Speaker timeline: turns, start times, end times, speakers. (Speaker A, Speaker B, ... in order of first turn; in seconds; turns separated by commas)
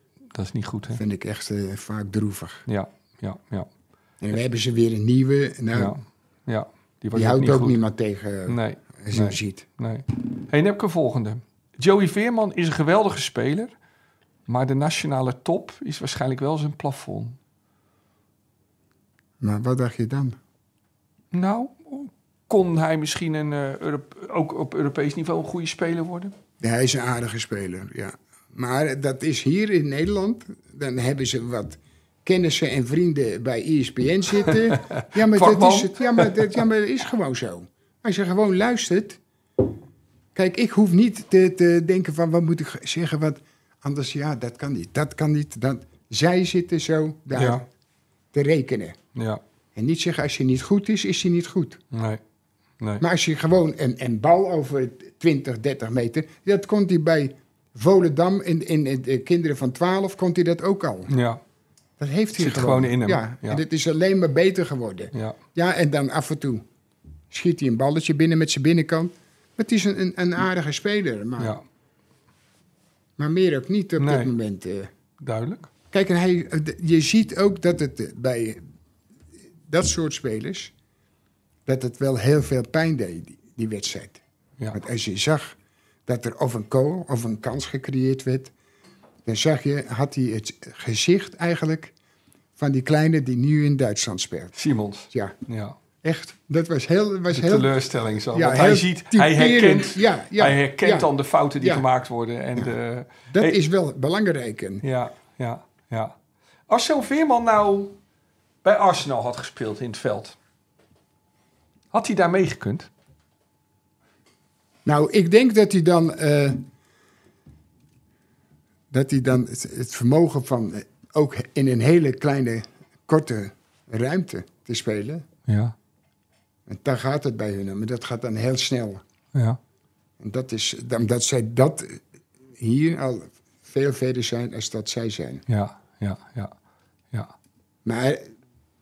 Speaker A: 0.3-1.0, Speaker B: 0.9-2.7, Speaker A: 2.7-3.7, Speaker B: 4.2-6.0, Speaker A: 5.7-7.8, Speaker B: 7.1-9.7, Speaker A: 8.5-13.7, Speaker A: 14.5-17.4, Speaker B: 19.4-20.4, Speaker A: 21.3-26.3, Speaker B: 26.6-39.2, Speaker A: 34.5-36.4, Speaker B: 40.4-47.6, Speaker A: 47.3-47.6, Speaker B: 48.3-49.0, Speaker A: 49.1-49.4, Speaker B: 49.8-51.8, Speaker A: 51.9-52.2, Speaker B: 53.0-61.1, Speaker A: 61.1-61.4, Speaker B: 62.0-66.7, Speaker A: 62.4-63.6, Speaker A: 65.1-65.4, Speaker B: 67.3-71.6, Speaker B: 73.2-74.9, Speaker A: 74.0-74.3, Speaker A: 75.2-75.7, Speaker B: 75.9-78.6, Speaker B: 79.7-80.7, Speaker B: 81.7-84.2, Speaker B: 84.7-88.5, Speaker B: 89.3-91.9, Speaker B: 92.6-94.6, Speaker A: 94.5-95.8, Speaker B: 96.0-97.8, Speaker A: 97.3-103.6, Speaker B: 98.3-101.9, Speaker B: 103.3-104.8, Speaker A: 104.8-106.2, Speaker A: 106.7-107.9, Speaker A: 108.6-110.4, Speaker A: 111.9-112.9, Speaker B: 114.8-116.7, Speaker B: 118.9-125.3, Speaker A: 125.5-125.7, Speaker B: 126.7-129.0, Speaker A: 129.3-129.6, Speaker B: 130.2-132.0, Speaker B: 132.6-135.4, Speaker A: 135.5-136.5, Speaker B: 137.8-138.3